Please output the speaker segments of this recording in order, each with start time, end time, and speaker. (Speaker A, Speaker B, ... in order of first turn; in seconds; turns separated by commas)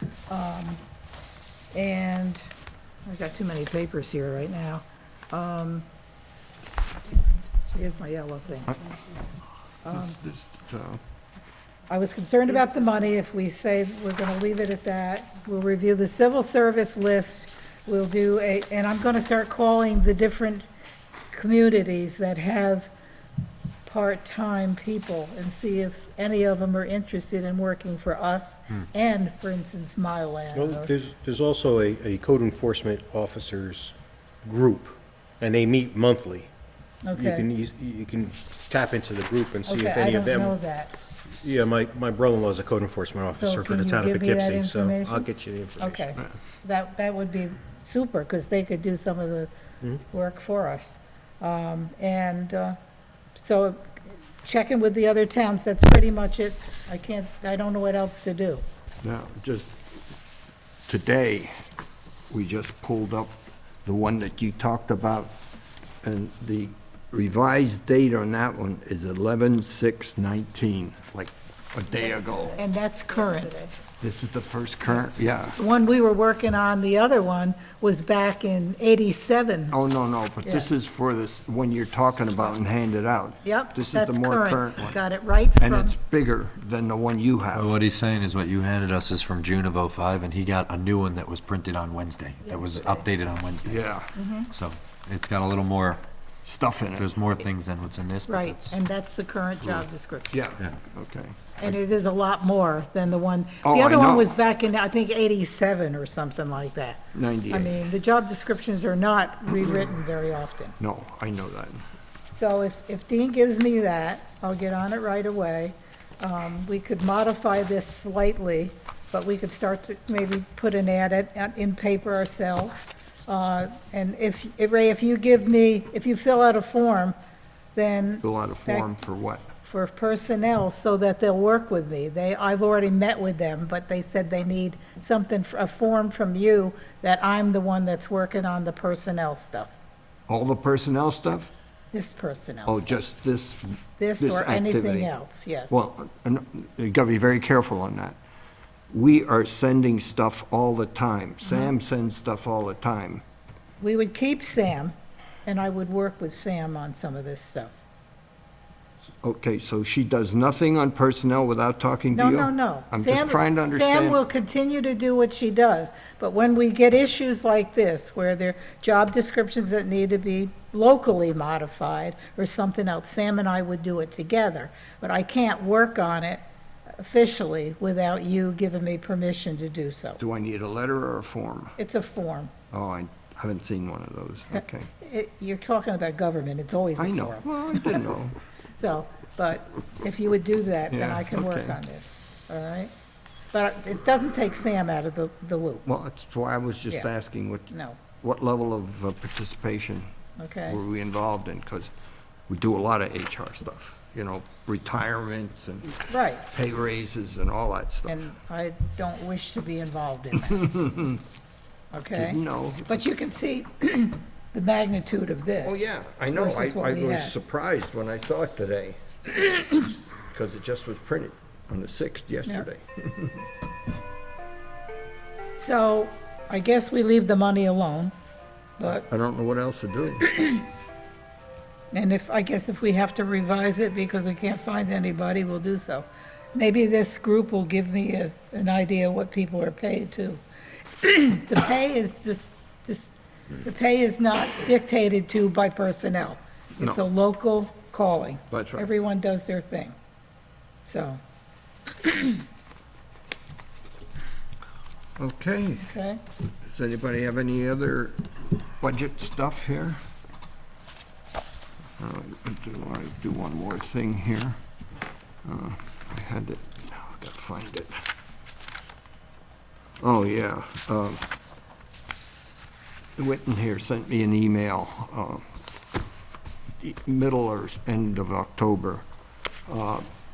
Speaker A: 0.3-0.8, Speaker A: 1.7-2.5, Speaker A: 3.0-5.8, Speaker A: 7.7-8.8, Speaker A: 9.8-10.2, Speaker B: 9.9-11.0, Speaker A: 11.9-20.7, Speaker A: 21.3-22.9, Speaker A: 23.9-30.9, Speaker C: 30.5-36.5, Speaker A: 37.0-37.4, Speaker C: 37.1-40.6, Speaker A: 39.6-40.9, Speaker C: 41.4-46.1, Speaker A: 43.4-45.3, Speaker A: 45.8-49.5, Speaker A: 50.0-52.8, Speaker A: 53.3-58.6, Speaker B: 59.0-59.7, Speaker B: 60.9-61.5, Speaker B: 62.3-65.3, Speaker B: 66.0-72.6, Speaker A: 72.6-73.7, Speaker B: 74.0-75.6, Speaker A: 75.5-79.8, Speaker B: 79.7-85.0, Speaker A: 83.4-86.0, Speaker B: 85.6-87.8, Speaker D: 87.5-96.0, Speaker A: 92.5-93.0, Speaker B: 93.6-94.1, Speaker A: 94.1-94.5, Speaker B: 96.4-97.1, Speaker D: 97.0-98.8, Speaker A: 98.2-100.4, Speaker B: 100.3-101.7, Speaker A: 101.6-110.8, Speaker B: 103.6-104.3, Speaker B: 107.1-107.8, Speaker B: 110.8-111.8, Speaker A: 112.3-127.2, Speaker A: 127.7-128.9, Speaker B: 128.2-129.4, Speaker A: 129.6-139.8, Speaker B: 140.3-141.5, Speaker A: 141.9-143.0, Speaker B: 142.7-145.1, Speaker A: 144.0-145.8, Speaker B: 145.7-148.2, Speaker B: 148.9-153.2, Speaker A: 151.4-151.7, Speaker A: 153.8-157.8, Speaker B: 159.2-164.2, Speaker A: 162.1-176.4, Speaker A: 177.0-180.2, Speaker B: 180.2-181.8, Speaker A: 181.8-182.5, Speaker B: 182.7-184.9, Speaker A: 185.0-188.1, Speaker B: 187.0-188.3, Speaker A: 188.8-192.9, Speaker B: 190.9-191.8, Speaker A: 193.5-195.8, Speaker B: 195.8-197.7, Speaker A: 197.7-198.0, Speaker B: 198.2-200.1, Speaker A: 200.4-200.8, Speaker B: 200.7-201.9, Speaker B: 202.5-208.2, Speaker A: 206.1-206.4, Speaker A: 208.1-210.7, Speaker B: 210.6-211.2, Speaker A: 211.9-217.3, Speaker B: 212.1-213.0, Speaker B: 215.6-223.4, Speaker A: 225.5-228.1, Speaker A: 228.8-229.1, Speaker B: 229.1-230.3, Speaker A: 230.3-230.6, Speaker A: 231.9-240.4, Speaker A: 241.0-249.9, Speaker B: 248.5-248.9, Speaker A: 250.8-251.2, Speaker A: 252.0-252.4, Speaker B: 255.2-255.9, Speaker A: 255.8-256.2, Speaker B: 256.6-260.0, Speaker B: 262.0-264.6, Speaker B: 265.4-267.9, Speaker B: 270.0-271.2, Speaker B: 273.2-275.4, Speaker B: 276.8-279.0, Speaker B: 279.7-280.1